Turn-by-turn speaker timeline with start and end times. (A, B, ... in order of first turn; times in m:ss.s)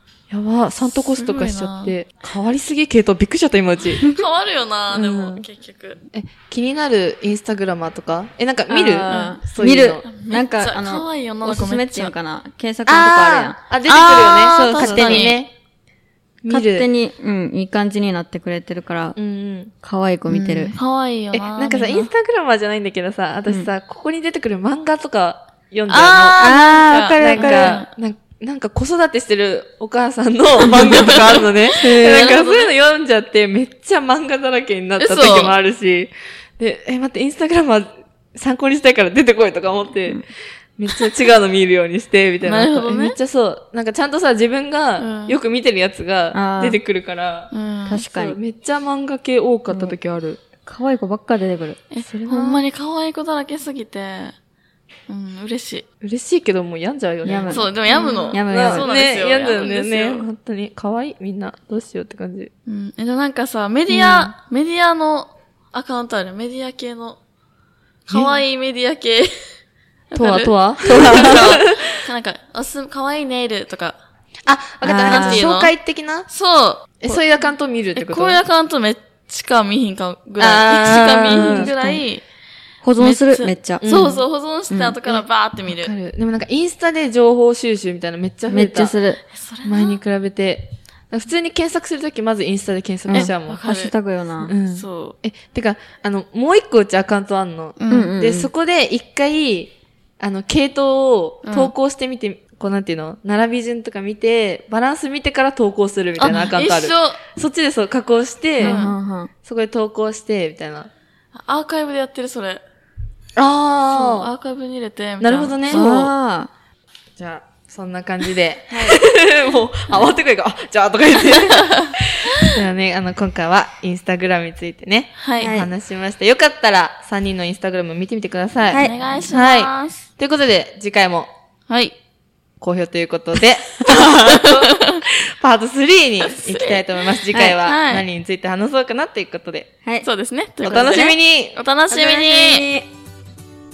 0:00.3-0:04.1 A
0:00.8-0:02.0 B
0:04.1-0:06.0 B
0:04.9-0:05.4 A
0:06.1-0:10.1 A
0:08.7-0:15.4 C
0:09.1-0:09.4 B
0:10.0-0:12.2 B
0:12.9-0:15.5 A
0:14.7-0:15.4 B
0:16.4-0:16.9 A
0:16.5-0:19.2 C
0:19.2-0:19.7 A
0:19.8-0:20.8 C
0:20.3-0:22.1 B
0:21.3-0:26.5 A
0:25.9-0:27.9 B
0:26.4-0:27.8 C
0:27.2-0:40.2 A
0:30.9-0:32.7 B
0:31.8-0:32.3 C
0:35.0-0:35.6 B
0:40.8-0:47.5 A
0:42.4-0:43.2 B
0:45.0-0:45.4 B
0:46.3-0:46.8 C
0:47.5-0:48.0 B
0:47.9-0:48.4 C
0:48.0-0:50.5 A
0:49.7-0:50.0 C
0:50.6-0:51.8 C
0:51.9-0:54.4 B
0:52.0-0:52.6 A
0:55.1-0:55.9 B
0:56.0-1:02.5 A
0:57.2-0:58.9 C
0:57.5-1:00.3 B
1:02.7-1:07.2 B
1:03.9-1:04.4 A
1:08.1-1:09.4 B
1:08.1-1:08.4 A
1:10.1-1:14.0 B
1:10.2-1:12.0 A
1:14.5-1:16.3 A
1:14.8-1:15.4 C
1:15.1-1:15.7 B
1:16.3-1:17.1 B
1:17.0-1:18.4 A
1:17.9-1:22.2 B
1:20.4-1:21.7 A
1:21.3-1:22.0 C
1:22.8-1:23.8 C
1:23.0-1:25.9 B
1:23.8-1:24.2 A
1:24.7-1:25.0 C
1:25.1-1:29.0 A
1:28.5-1:29.2 C
1:29.3-1:30.0 B
1:29.6-1:33.6 A
1:33.1-1:34.5 C
1:33.3-1:33.9 B
1:34.4-1:48.8 A
1:34.7-1:35.2 B
1:37.8-1:38.1 B
1:37.9-1:38.5 C
1:41.4-1:41.7 B
1:46.2-1:47.2 B
1:48.6-1:48.9 B
1:48.6-1:49.3 C
1:49.4-1:50.9 A
1:51.4-1:52.6 B
1:53.4-1:54.3 A
1:53.9-1:55.8 B
1:55.2-1:56.1 A
1:55.7-1:56.5 C
1:57.2-2:11.3 A
1:58.7-1:59.0 C
2:05.2-2:05.5 B
2:05.4-2:05.7 C
2:08.7-2:08.9 C
2:08.8-2:10.1 B
2:11.7-2:12.0 B
2:12.6-2:19.7 A
2:14.0-2:15.0 B
2:16.2-2:18.1 B
2:20.0-2:22.7 B
2:20.6-2:21.2 C
2:20.7-2:21.6 A
2:21.9-2:22.9 C